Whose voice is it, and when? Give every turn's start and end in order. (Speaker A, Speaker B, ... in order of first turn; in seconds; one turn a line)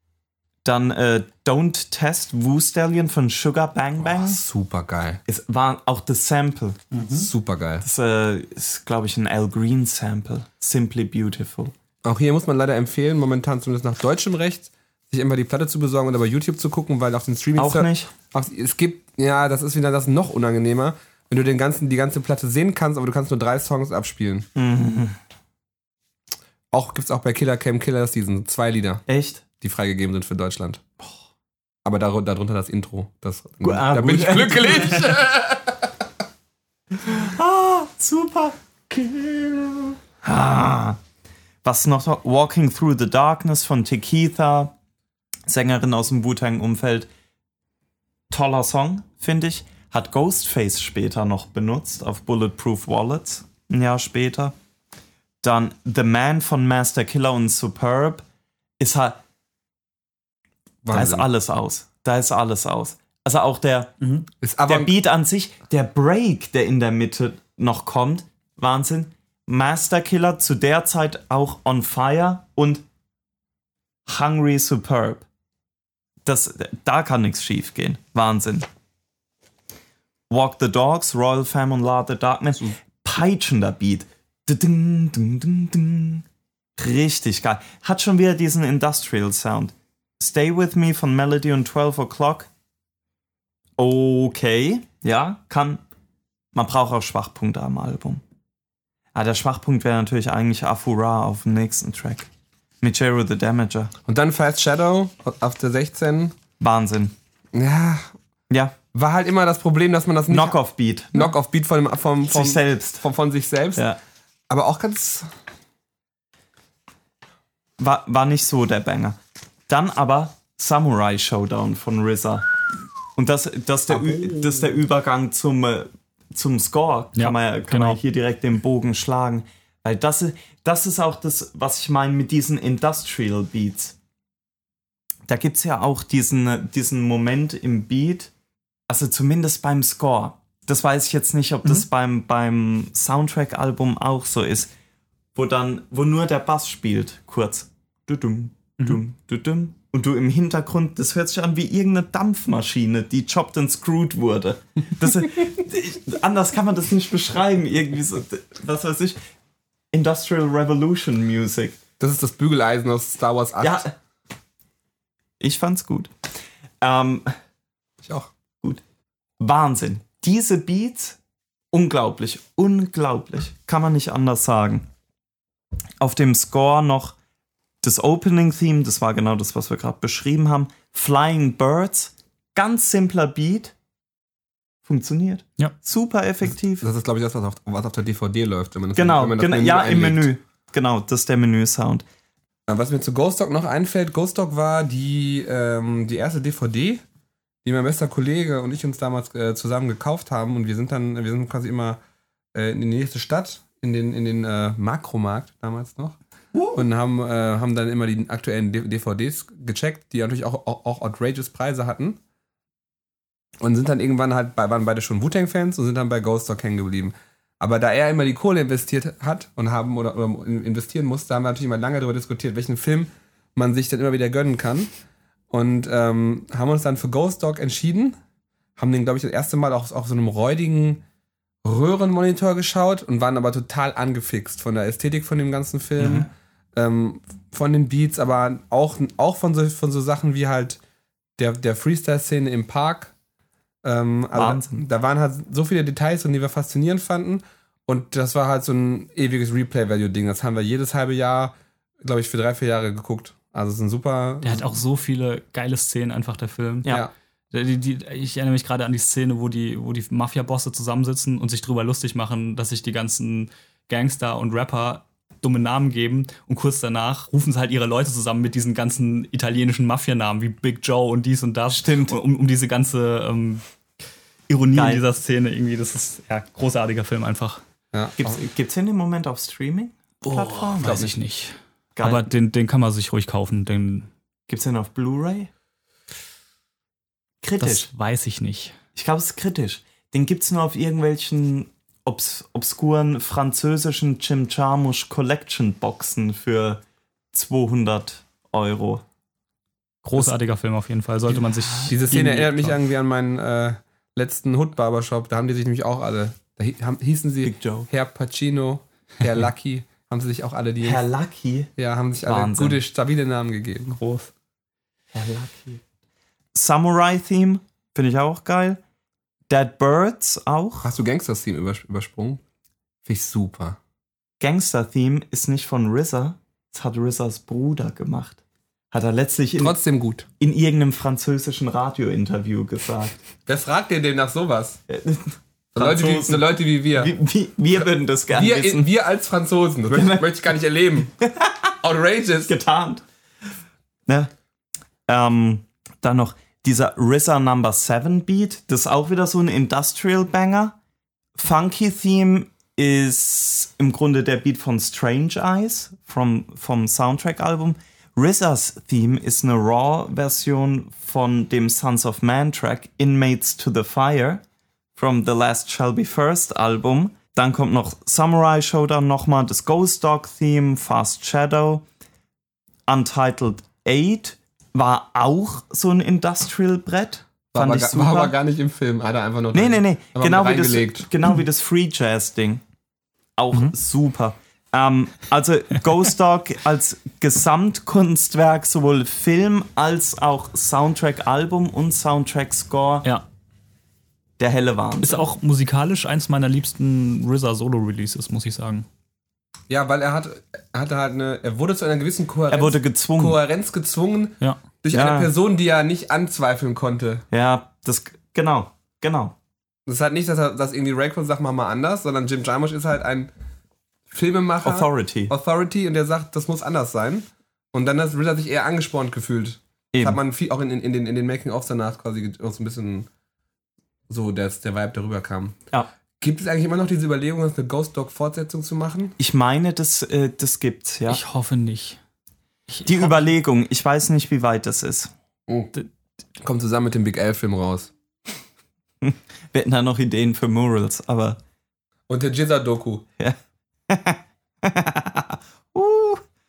Speaker A: 0.6-4.4
Speaker B: 4.1-5.2
Speaker A: 5.3-6.8
Speaker C: 6.9-7.3
Speaker B: 7.1-7.8
Speaker A: 7.8-11.7
Speaker B: 12.0-24.5
Speaker A: 17.6-18.1
Speaker A: 24.6-25.2
Speaker B: 26.7-29.0
Speaker A: 29.1-29.4
Speaker B: 29.6-30.8
Speaker B: 31.9-35.9
Speaker A: 33.6-35.2
Speaker A: 36.9-41.0
Speaker A: 41.6-44.7
Speaker A: 45.5-47.1
Speaker A: 48.3-54.5
Speaker A: 55.4-58.2
Speaker A: 58.8-59.2
Speaker B: 60.9-61.3
Speaker A: 60.9-64.0
Speaker C: 64.0-64.3
Speaker B: 64.4-64.9
Speaker A: 64.7-72.8
Speaker A: 74.1-75.2
Speaker A: 76.2-78.7
Speaker A: 80.3-86.2
Speaker A: 86.8-92.5
Speaker A: 93.8-95.8
Speaker A: 96.5-98.2
Speaker A: 99.1-102.3
Speaker A: 102.8-103.9
Speaker B: 104.1-106.4
Speaker A: 106.6-107.1
Speaker B: 107.5-108.1
Speaker A: 108.5-108.8
Speaker B: 108.9-110.6
Speaker A: 110.3-111.3
Speaker B: 111.1-113.9
Speaker A: 112.3-113.0
Speaker B: 114.5-115.3
Speaker A: 117.8-122.5
Speaker A: 123.2-133.9
Speaker B: 123.9-124.8
Speaker C: 127.2-128.0
Speaker A: 135.3-138.3
Speaker A: 138.9-144.7
Speaker A: 145.3-159.2
Speaker A: 159.9-161.8
Speaker B: 162.0-163.9
Speaker A: 163.6-163.9
Speaker A: 165.4-166.1
Speaker A: 166.8-167.3
Speaker B: 168.0-168.3
Speaker A: 169.4-171.2
Speaker A: 171.7-174.9
Speaker A: 176.0-177.2
Speaker A: 177.8-183.7
Speaker A: 184.8-186.9
Speaker B: 186.8-190.3
Speaker A: 188.9-192.1
Speaker B: 192.7-197.0
Speaker B: 197.7-202.0
Speaker B: 202.5-206.2
Speaker A: 206.6-206.8
Speaker B: 206.7-212.2
Speaker B: 213.6-224.9
Speaker B: 225.5-228.2
Speaker B: 228.8-231.0
Speaker B: 231.6-240.8
Speaker B: 241.4-243.1
Speaker B: 243.8-254.8
Speaker A: 244.3-244.8
Speaker C: 254.4-256.9
Speaker C: 257.5-273.6
Speaker A: 271.7-272.2
Speaker C: 274.5-277.6
Speaker A: 274.7-275.0
Speaker B: 277.9-278.4
Speaker A: 278.2-281.1
Speaker C: 280.3-284.1
Speaker B: 280.8-281.1
Speaker A: 282.0-282.3
Speaker A: 284.5-285.5
Speaker A: 287.4-287.9
Speaker C: 287.6-288.8
Speaker A: 288.9-296.8
Speaker A: 297.3-299.0
Speaker C: 300.0-302.7
Speaker A: 301.3-301.9
Speaker B: 301.9-311.0
Speaker A: 307.4-307.9
Speaker A: 310.8-311.7
Speaker B: 311.8-314.0
Speaker A: 312.2-312.8
Speaker C: 314.0-314.3
Speaker A: 315.1-315.8
Speaker A: 316.6-318.8
Speaker A: 319.5-320.9
Speaker B: 320.8-322.4
Speaker B: 323.1-323.8
Speaker A: 324.4-328.4
Speaker A: 328.9-329.8
Speaker B: 329.6-330.3
Speaker A: 330.4-333.2
Speaker B: 333.5-334.8
Speaker A: 334.9-338.9
Speaker B: 335.8-337.1
Speaker B: 338.3-341.1
Speaker A: 339.9-340.4
Speaker A: 341.2-341.7
Speaker B: 341.8-342.5
Speaker A: 342.4-343.0
Speaker A: 345.1-350.8
Speaker A: 351.4-364.4
Speaker A: 365.0-371.9
Speaker A: 372.9-378.3
Speaker B: 377.5-381.1
Speaker A: 379.5-382.6
Speaker A: 383.4-393.1
Speaker A: 394.4-395.2
Speaker C: 395.0-398.9
Speaker B: 399.7-407.2
Speaker A: 402.5-403.4
Speaker A: 404.9-405.3
Speaker A: 407.3-409.4
Speaker B: 409.9-413.3
Speaker B: 414.1-423.1
Speaker A: 414.6-415.3
Speaker A: 419.9-420.2
Speaker B: 424.1-425.6
Speaker B: 426.2-429.1
Speaker A: 429.2-431.2
Speaker C: 431.1-432.0
Speaker C: 432.7-433.3
Speaker A: 432.9-435.1
Speaker B: 435.5-435.7
Speaker B: 436.4-437.9
Speaker A: 439.0-441.4
Speaker B: 442.1-443.1
Speaker A: 443.9-446.2